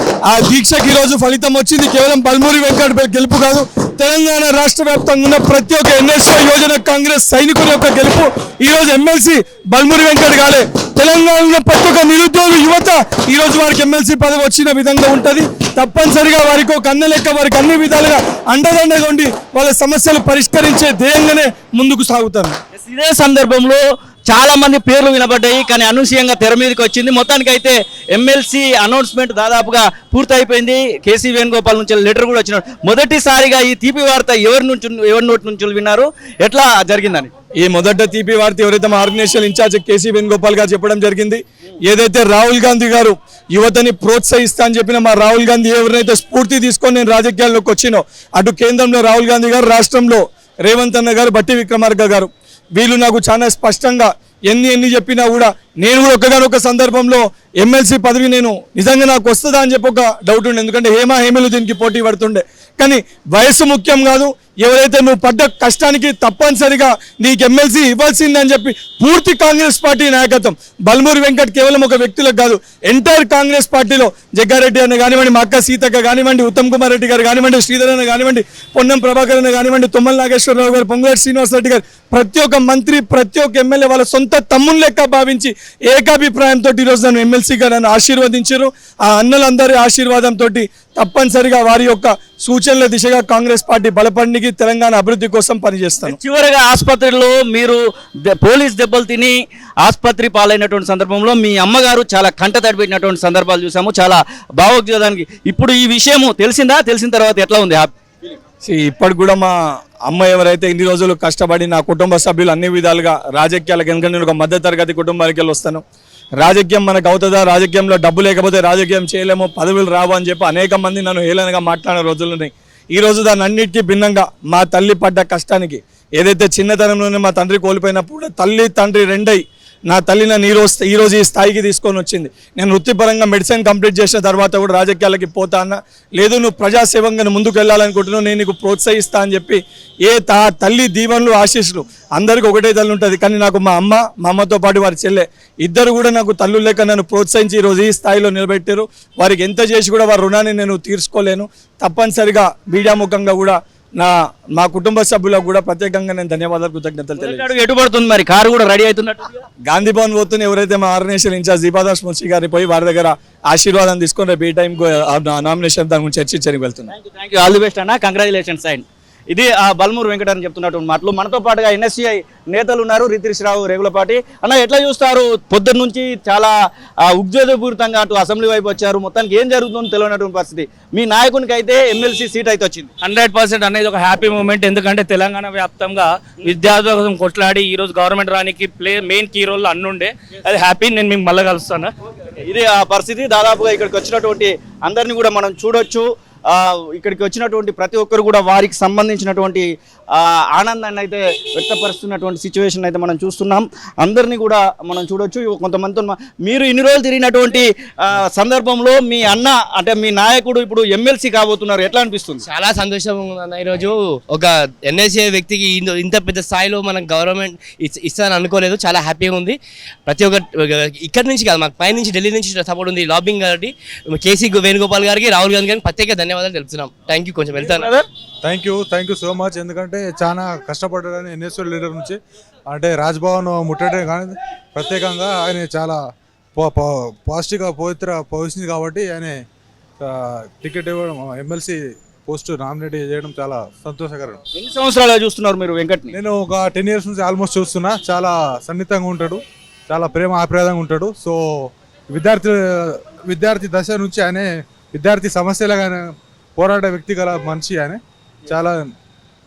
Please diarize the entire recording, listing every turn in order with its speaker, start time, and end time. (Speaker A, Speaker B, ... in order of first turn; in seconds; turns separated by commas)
Speaker A: 0.3-22.6, Speaker B: 22.7-37.3, Speaker A: 37.6-96.2, Speaker B: 96.0-97.8, Speaker B: 98.4-108.3, Speaker A: 108.6-109.5, Speaker A: 110.1-115.8, Speaker A: 116.4-157.5, Speaker B: 157.2-159.3, Speaker A: 159.7-166.9, Speaker B: 166.9-176.5, Speaker B: 177.1-182.9, Speaker C: 183.0-191.9, Speaker B: 192.4-199.7, Speaker B: 200.2-212.4, Speaker D: 212.5-227.8, Speaker E: 228.4-232.2, Speaker E: 232.7-236.0, Speaker E: 236.6-239.4, Speaker E: 240.0-244.4, Speaker B: 244.5-246.2, Speaker E: 246.1-258.9